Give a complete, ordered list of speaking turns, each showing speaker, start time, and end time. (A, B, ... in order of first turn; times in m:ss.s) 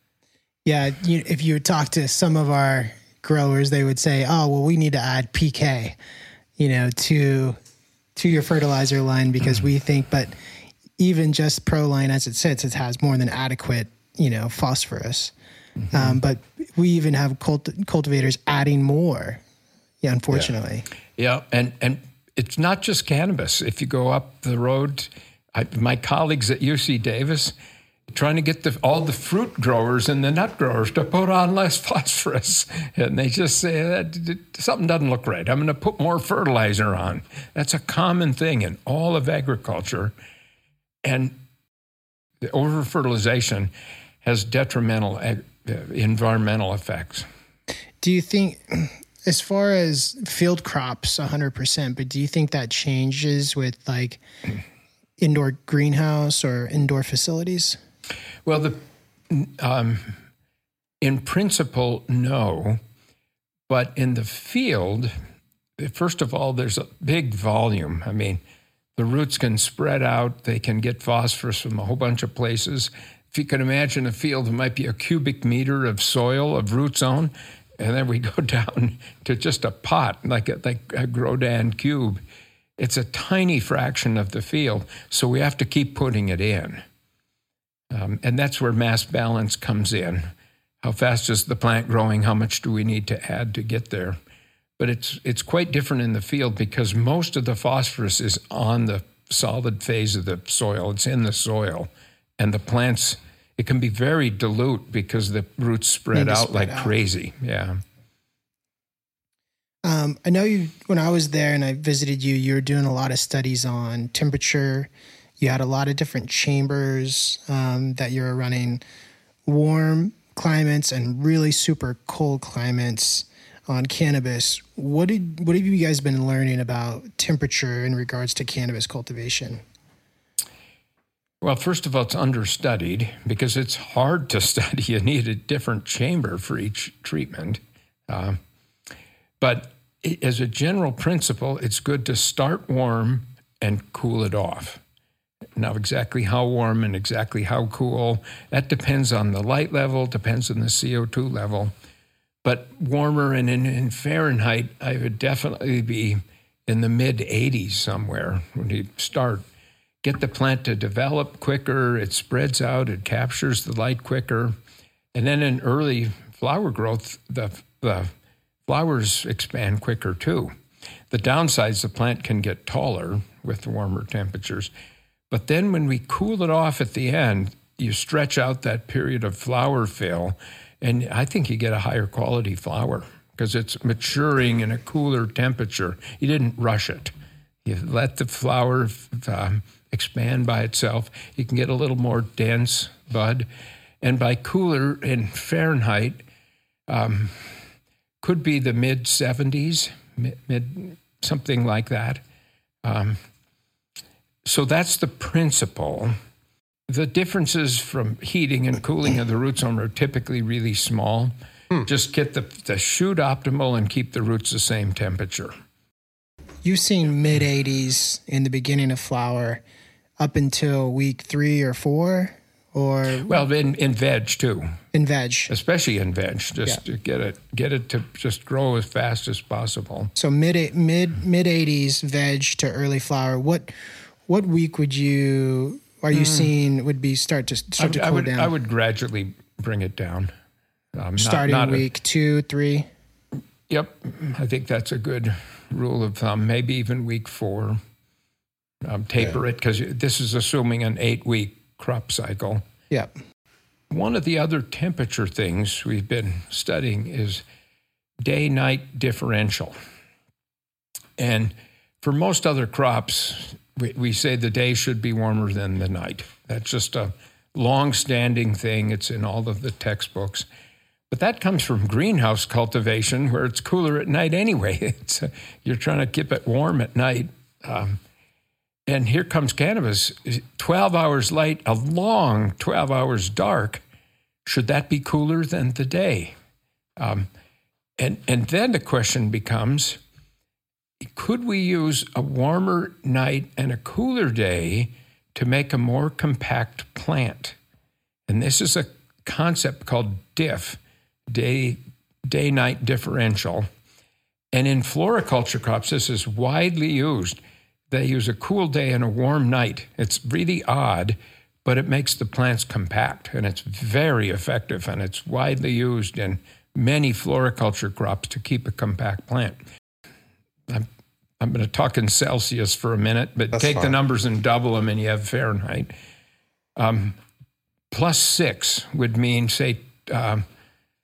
0:00.6-0:06.0 A
0:06.6-0:07.6 A
0:08.2-0:15.3 A
0:15.9-0:19.4 A
0:20.0-0:20.8 A
0:21.2-0:27.5 B
0:28.1-0:40.1 B
0:41.0-0:41.4 B
0:42.4-0:43.7 B
0:44.2-0:47.2 B
0:48.0-0:54.2 A
0:55.2-0:57.8 A
0:58.4-0:58.8 B
0:59.3-1:00.2 B
1:01.0-1:02.8 B
1:03.7-1:05.1 B
1:05.8-1:08.4 B
1:09.0-1:22.2 B
1:22.8-1:26.8 B
1:27.9-1:30.3 B
1:30.8-1:34.2 B
1:34.8-1:47.8 B
1:46.1-1:46.9 A
1:49.8-1:58.8 A
1:59.4-2:09.6 A
2:11.4-2:18.4 B
2:19.4-2:24.8 B
2:25.6-2:31.7 B
2:32.4-2:39.4 B
2:40.0-2:44.5 B
2:45.1-2:48.1 B
2:48.7-2:50.5 B
2:51.1-2:54.7 B
2:55.3-3:07.1 B
3:07.6-3:13.5 B
3:14.0-3:16.2 B
3:16.9-3:17.6 B
3:18.2-3:22.2 B
3:22.8-3:23.2 B
3:24.4-3:26.1 B
3:26.9-3:35.5 B
3:36.6-3:39.6 A
3:40.2-3:43.3 A
3:43.2-3:44.8 B
3:44.9-3:45.5 A
3:45.5-3:50.1 B
3:50.2-3:53.7 A
3:54.3-3:58.5 A
3:56.1-3:56.5 B
3:57.8-4:00.3 B
4:00.9-4:01.8 B
4:01.2-4:02.9 A
4:03.7-4:07.8 B
4:08.8-4:12.6 B
4:13.9-4:17.4 B
4:18.2-4:19.7 B
4:21.2-4:30.4 B
4:31.1-4:38.0 B
4:38.9-4:43.8 B
4:44.4-4:46.3 B
4:47.0-4:47.3 B
4:48.0-4:50.0 B
4:51.1-4:57.6 B
4:58.3-5:03.7 B
5:04.5-5:19.6 B
5:21.4-5:25.9 B
5:26.8-5:27.2 B
5:27.9-5:30.4 B